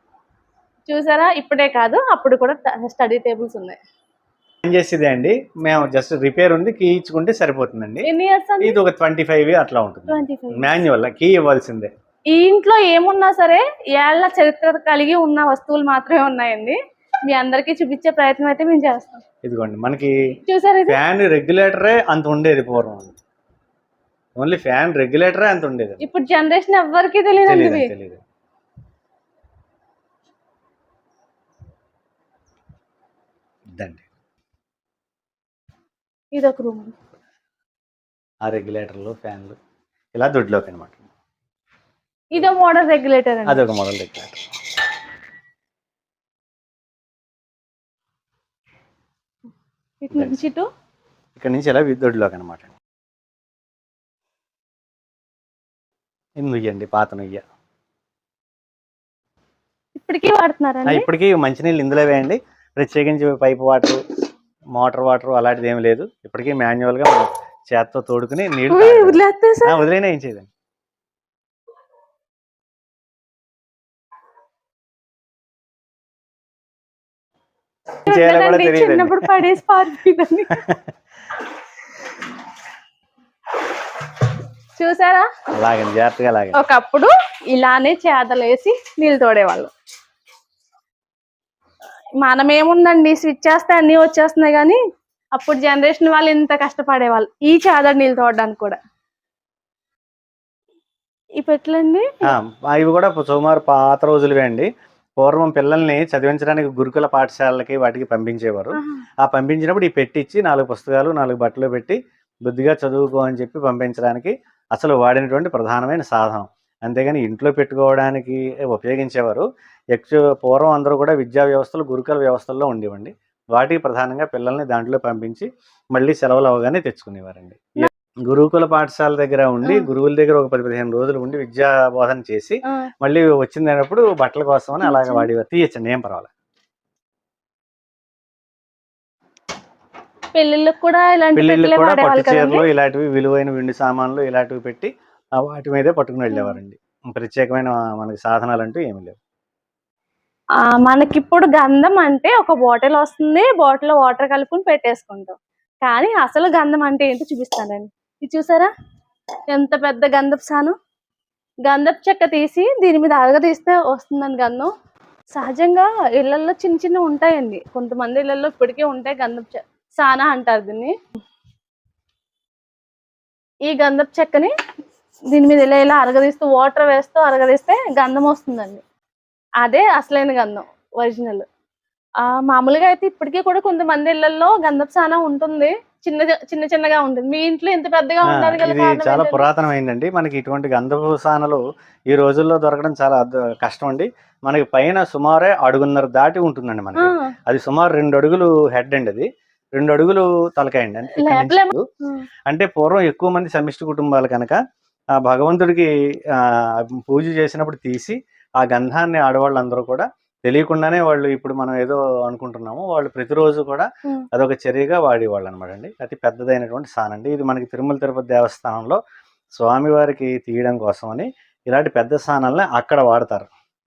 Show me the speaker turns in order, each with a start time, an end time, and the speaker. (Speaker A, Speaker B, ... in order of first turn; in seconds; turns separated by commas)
Speaker A: 0.9-3.8, Speaker B: 4.6-8.1, Speaker A: 8.0-8.8, Speaker B: 8.6-11.9, Speaker A: 10.1-10.7, Speaker A: 12.3-19.2, Speaker B: 19.4-20.1, Speaker A: 20.5-21.0, Speaker B: 20.9-23.2, Speaker B: 24.4-26.0, Speaker A: 26.0-27.9, Speaker B: 27.5-28.2, Speaker B: 33.7-34.0, Speaker A: 36.3-36.9, Speaker B: 38.4-39.5, Speaker B: 40.1-41.0, Speaker A: 42.3-43.6, Speaker B: 43.5-44.4, Speaker A: 50.0-50.7, Speaker B: 50.1-50.4, Speaker B: 51.4-52.7, Speaker B: 56.4-57.4, Speaker A: 60.0-61.0, Speaker B: 60.9-64.0, Speaker B: 64.8-70.5, Speaker A: 68.7-69.8, Speaker B: 78.1-79.5, Speaker A: 78.1-80.6, Speaker B: 80.5-80.8, Speaker A: 84.8-85.3, Speaker B: 85.5-86.6, Speaker A: 86.5-89.7, Speaker A: 92.2-94.8, Speaker A: 95.3-98.8, Speaker A: 101.4-102.2, Speaker B: 102.2-136.3, Speaker A: 134.8-135.3, Speaker A: 140.3-142.7, Speaker B: 141.3-144.9, Speaker B: 145.4-149.2, Speaker A: 146.3-146.6, Speaker A: 150.6-158.7, Speaker A: 159.5-160.7, Speaker A: 161.6-164.7, Speaker A: 165.3-170.9, Speaker A: 173.7-174.5, Speaker A: 175.3-178.8, Speaker A: 179.6-181.4, Speaker A: 182.2-189.5, Speaker B: 188.3-201.8, Speaker A: 197.0-197.3, Speaker A: 201.2-202.2, Speaker B: 202.5-204.6, Speaker B: 205.2-219.0, Speaker B: 219.6-223.5